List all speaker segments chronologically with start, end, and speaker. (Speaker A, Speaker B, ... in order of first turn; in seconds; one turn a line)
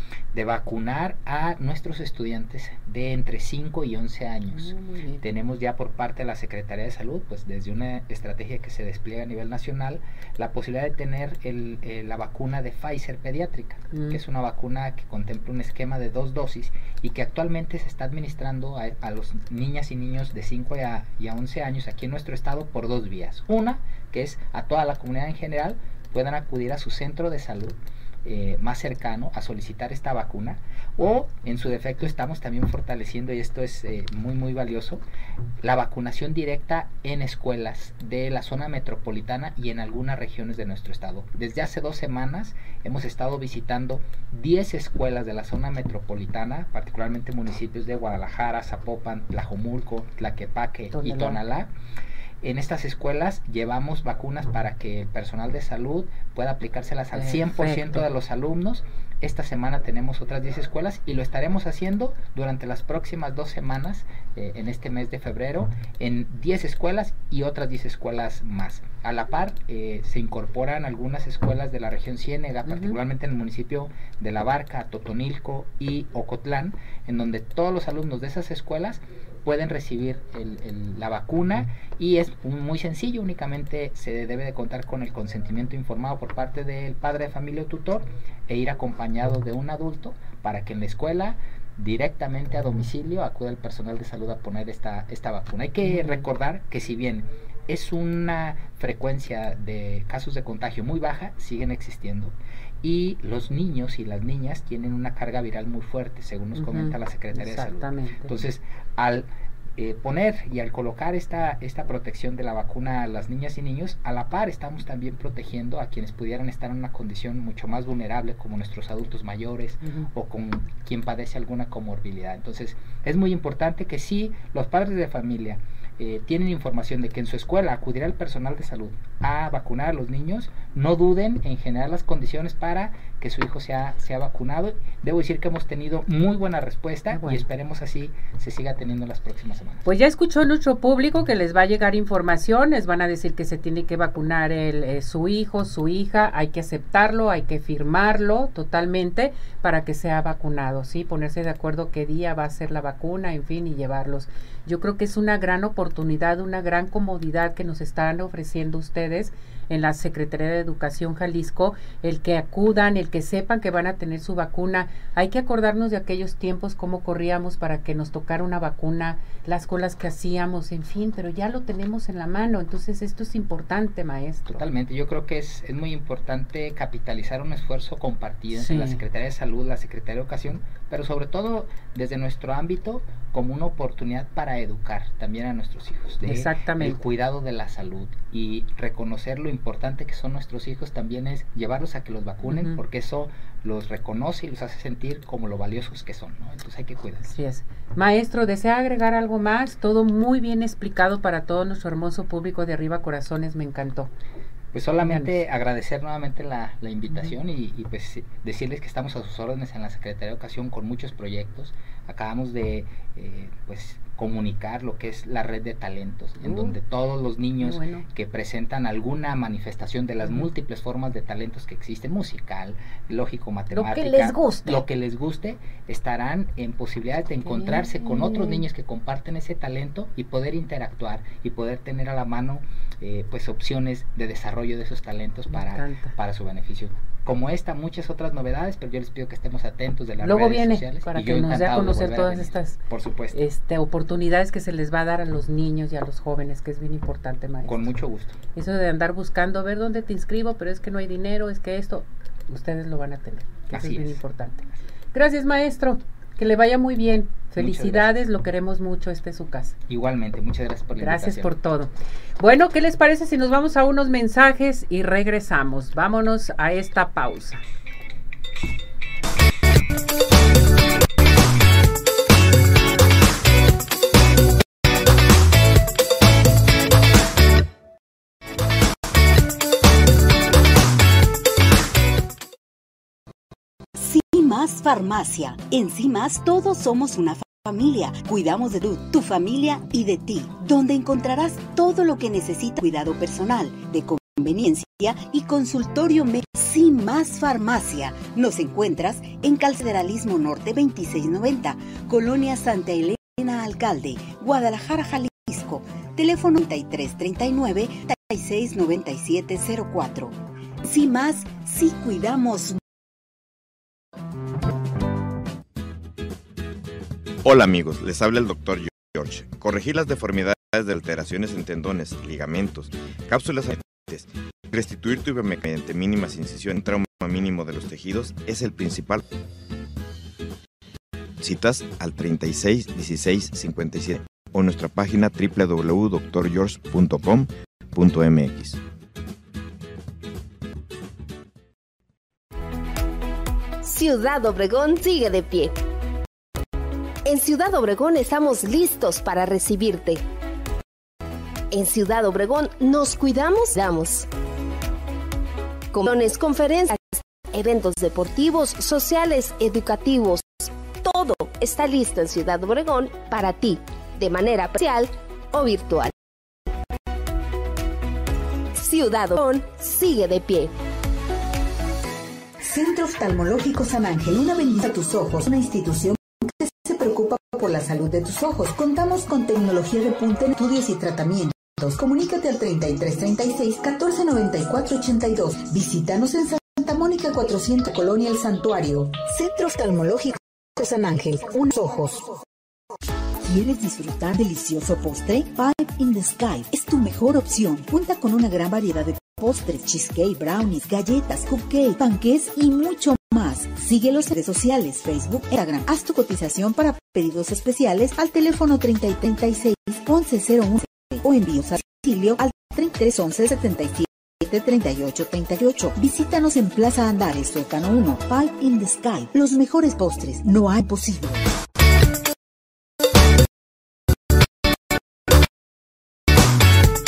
Speaker A: 0.3-35.0
Speaker B: 4.5-5.2
Speaker B: 13.9-14.2
Speaker A: 35.6-51.7
Speaker B: 50.9-51.4
Speaker A: 52.4-139.8
Speaker B: 57.1-58.0
Speaker B: 72.6-73.0
Speaker B: 95.8-96.2
Speaker B: 106.5-108.3
Speaker B: 119.8-120.1
Speaker B: 137.1-137.4
Speaker B: 139.8-174.6
Speaker A: 174.5-197.3
Speaker B: 178.5-179.0
Speaker B: 186.2-187.0
Speaker B: 192.4-192.8
Speaker B: 197.2-204.1
Speaker A: 204.7-243.4
Speaker B: 205.0-205.3
Speaker B: 216.4-216.8
Speaker B: 217.6-218.0
Speaker B: 220.2-220.5
Speaker B: 223.7-224.8
Speaker B: 227.4-228.6
Speaker B: 235.5-236.1
Speaker B: 240.2-242.8
Speaker B: 243.3-247.9
Speaker A: 247.6-248.4
Speaker B: 248.5-259.7
Speaker A: 253.7-254.2
Speaker A: 257.6-258.2
Speaker A: 259.9-261.5
Speaker B: 261.0-267.6
Speaker C: 283.9-312.8
Speaker D: 317.4-329.2
Speaker D: 331.4-338.8
Speaker E: 343.8-345.7
Speaker E: 347.2-350.2
Speaker E: 351.7-354.3
Speaker E: 355.9-366.1
Speaker E: 368.7-370.7
Speaker C: 372.6-392.4
Speaker C: 393.4-421.5